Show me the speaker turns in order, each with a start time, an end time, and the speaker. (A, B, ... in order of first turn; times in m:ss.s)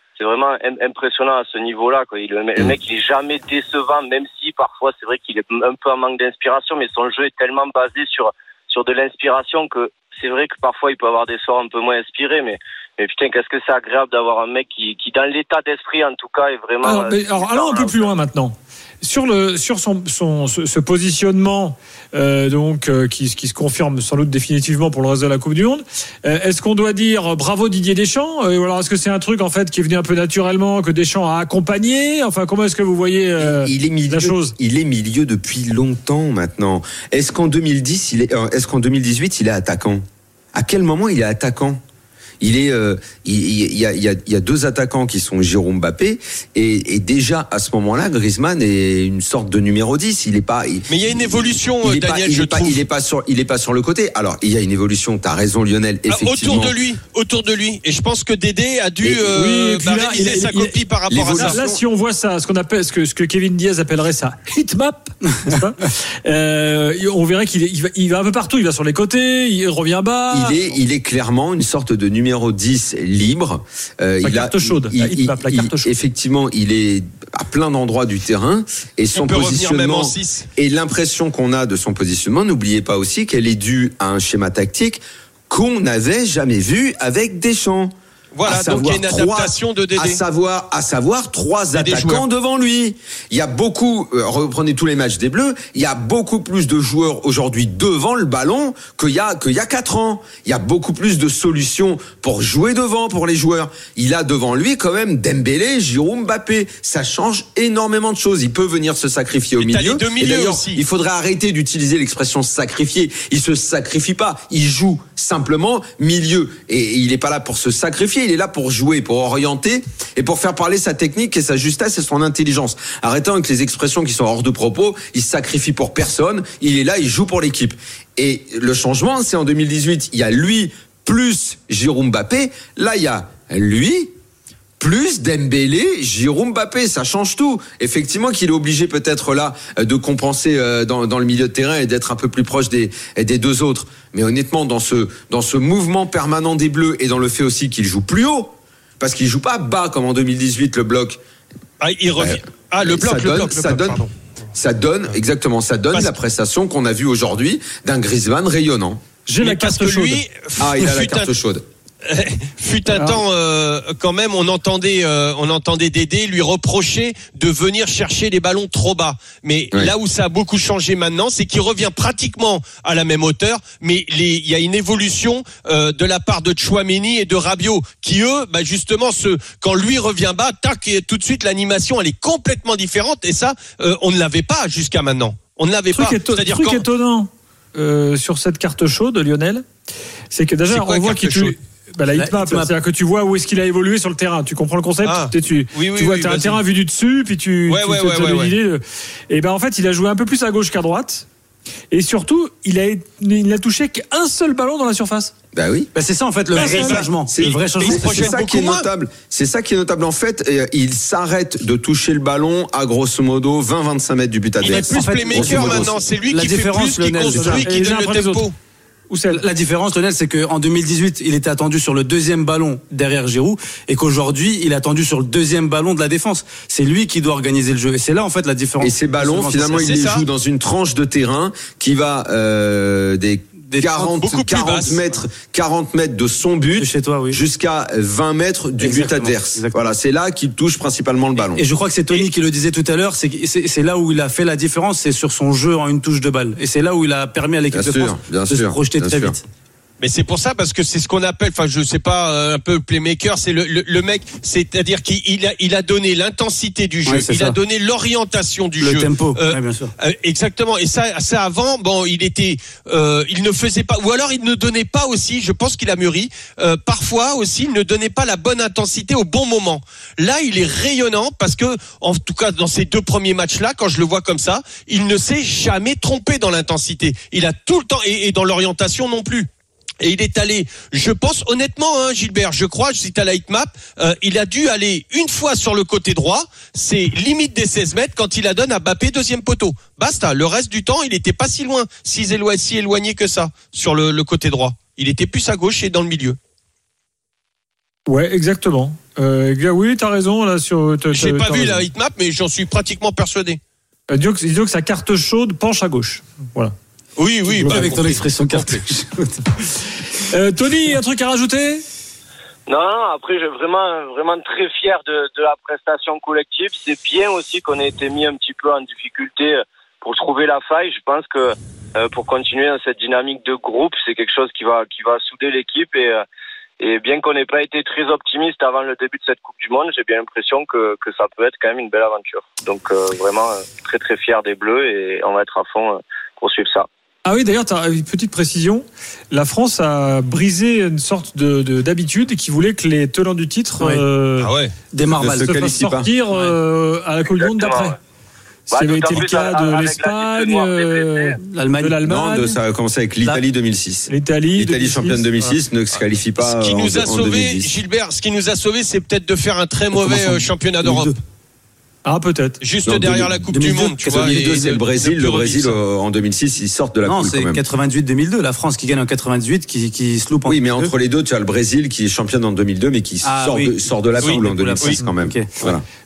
0:00.2-0:18.1 A
0:16.8-0:34.5 B
0:33.4-0:40.0 C
0:40.5-0:41.8 C
0:42.4-0:56.8 C
0:50.9-0:52.8 D
0:56.1-1:01.6 D
0:59.2-1:00.8 B
1:01.1-1:01.8 C
1:01.4-1:10.7 B
1:10.3-1:27.9 C
1:14.2-1:15.9 B
1:19.1-1:20.5 D
1:28.3-1:30.2 D
1:28.4-2:14.1 C
1:31.8-1:32.2 D
1:49.6-1:50.8 D
2:14.8-2:31.2 C
2:31.8-2:34.0 D
2:32.2-2:34.0 C
2:34.5-2:39.0 C
2:39.2-2:40.2 B
2:39.4-2:41.3 D
2:40.6-2:41.6 C
2:42.0-3:06.8 D
2:42.9-2:43.2 B
3:05.9-3:09.6 B
3:10.3-3:21.2 B
3:10.7-3:11.5 D
3:12.1-3:12.7 E
3:15.0-3:16.6 D
3:17.7-3:18.5 D
3:21.9-3:25.3 B
3:25.5-3:25.9 C
3:25.9-3:28.2 E
3:26.5-3:28.8 D
3:26.6-3:26.9 B
3:26.8-3:35.9 C
3:34.6-3:38.5 D
3:34.8-3:37.6 E
3:37.4-3:38.5 B
3:39.1-3:39.4 B
3:39.3-3:50.0 E
3:48.8-4:01.6 C
3:49.8-3:50.2 D
3:53.6-3:54.1 E
3:54.2-3:55.0 D
3:56.8-3:57.4 E
3:58.8-3:59.7 E
4:01.5-4:09.4 E
4:07.7-4:09.4 C
4:10.0-4:39.5 D
4:17.0-4:17.6 E
4:18.8-4:19.9 E
4:40.0-4:56.4 D
4:58.1-5:01.8 B
5:01.1-5:03.6 D
5:04.1-5:06.7 B
5:07.2-5:08.8 D
5:07.5-5:09.6 E
5:10.3-5:11.8 B
5:12.7-5:26.2 A
5:26.8-5:36.9 A
5:37.2-5:44.5 B
5:44.4-5:44.7 D
5:44.9-5:45.5 E
5:45.2-5:46.1 C
5:45.4-5:47.9 B
5:47.2-5:47.9 A
5:48.7-5:51.4 A
5:48.7-5:52.6 B
5:51.4-5:52.0 E
5:52.0-5:57.7 C
5:54.1-5:55.5 B
5:56.4-6:01.1 D
5:59.9-6:01.2 E
6:02.0-6:02.6 B
6:02.6-6:05.8 D
6:02.9-6:07.6 C
6:03.6-6:04.3 E
6:07.0-6:10.9 E
6:10.4-6:15.8 C
6:13.2-6:15.5 E
6:14.2-6:15.0 D